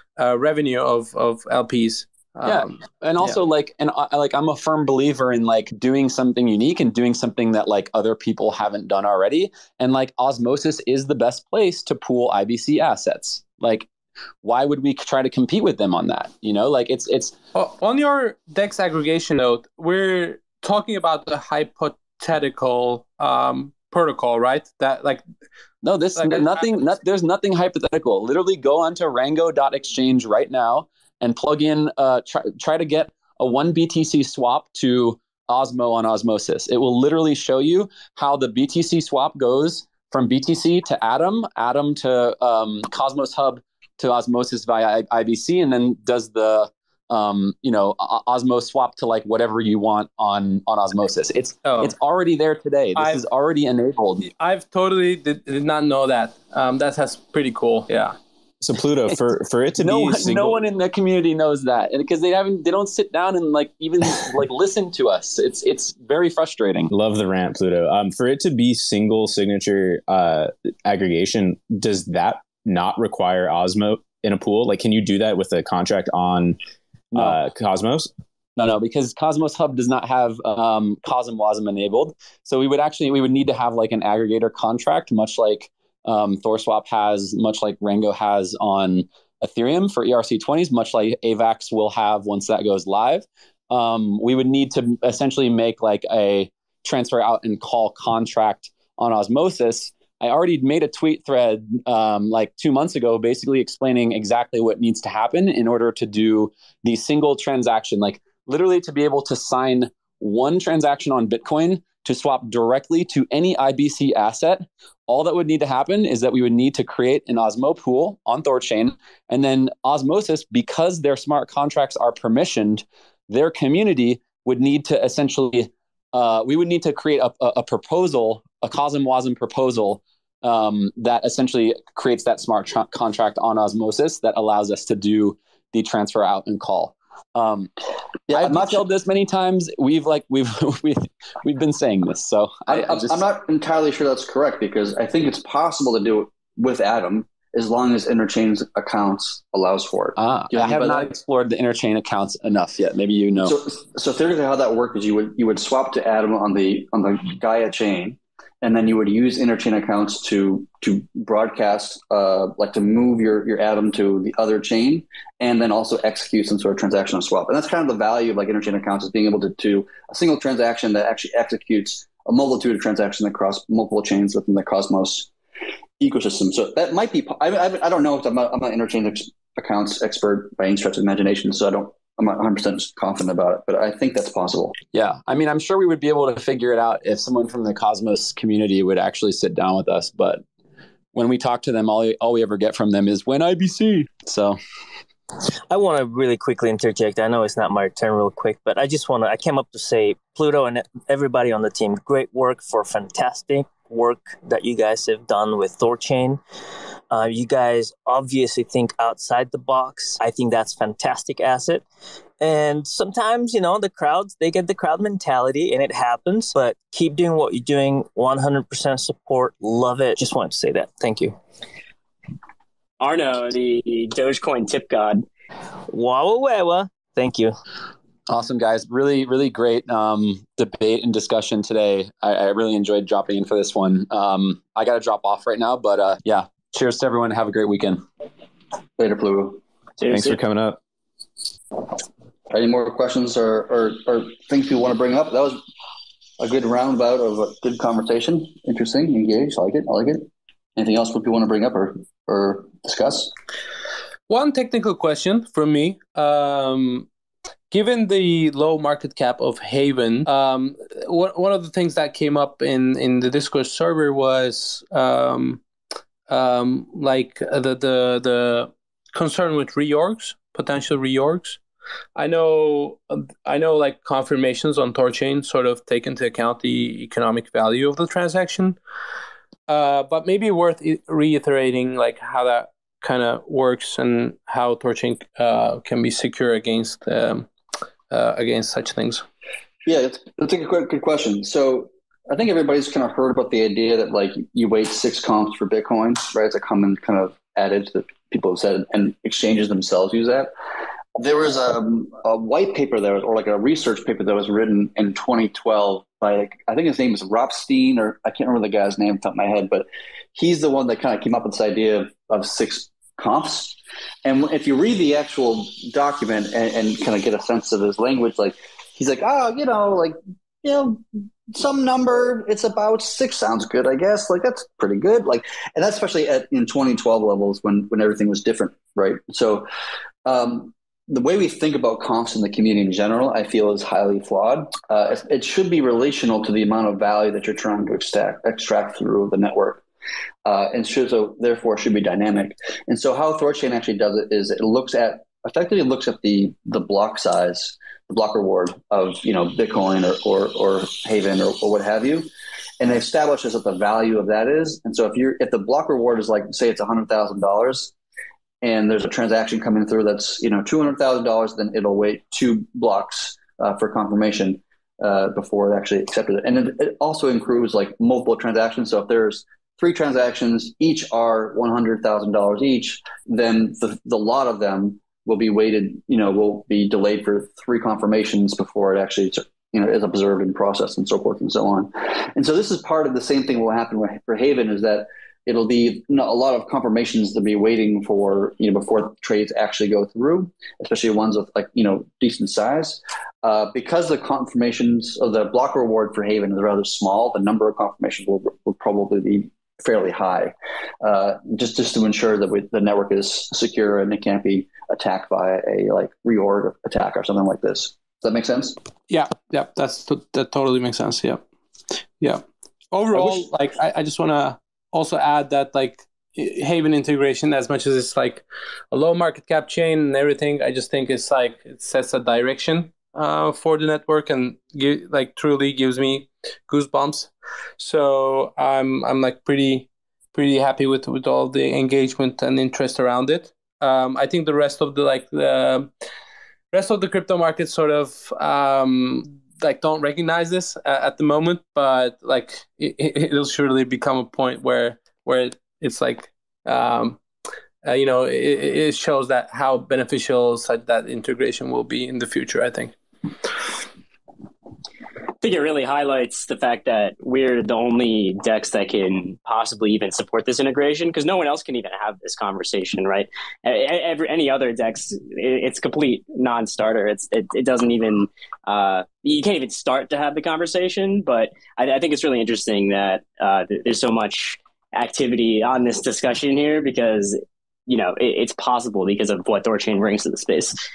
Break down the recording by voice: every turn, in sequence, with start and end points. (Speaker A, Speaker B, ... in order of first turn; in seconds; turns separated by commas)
Speaker A: 0.2-3.4, Speaker B: 2.4-13.9, Speaker B: 14.4-17.4, Speaker A: 17.5-25.2, Speaker B: 25.8-54.2, Speaker A: 26.2-26.8, Speaker A: 51.6-52.0, Speaker A: 53.0-53.2, Speaker A: 54.2-58.1, Speaker C: 58.6-60.5, Speaker B: 59.8-66.9, Speaker C: 66.9-76.6, Speaker C: 77.1-78.1, Speaker B: 78.6-137.7, Speaker D: 138.3-138.8, Speaker B: 138.3-143.2, Speaker D: 142.7-151.1, Speaker B: 150.2-153.5, Speaker D: 153.4-175.3, Speaker D: 176.0-184.7, Speaker B: 184.9-190.4, Speaker B: 191.1-194.6, Speaker E: 195.7-206.4, Speaker E: 207.1-211.8, Speaker E: 212.4-221.3, Speaker F: 223.0-225.2, Speaker E: 225.9-227.6, Speaker B: 228.3-238.0, Speaker D: 239.0-239.6, Speaker F: 240.0-240.4, Speaker C: 240.1-240.8, Speaker D: 242.5-245.6, Speaker D: 246.4-253.3, Speaker A: 254.3-257.1, Speaker A: 257.7-265.6, Speaker A: 266.3-271.6, Speaker A: 272.1-278.8, Speaker A: 279.7-287.5, Speaker A: 288.1-289.2, Speaker D: 289.9-300.5, Speaker D: 301.1-329.7, Speaker D: 330.2-339.8, Speaker D: 340.4-352.3, Speaker D: 352.8-357.9, Speaker D: 358.6-408.8, Speaker A: 409.1-411.4, Speaker A: 412.2-435.9, Speaker D: 413.1-413.4, Speaker A: 436.7-447.2, Speaker A: 447.8-452.9, Speaker F: 455.4-480.8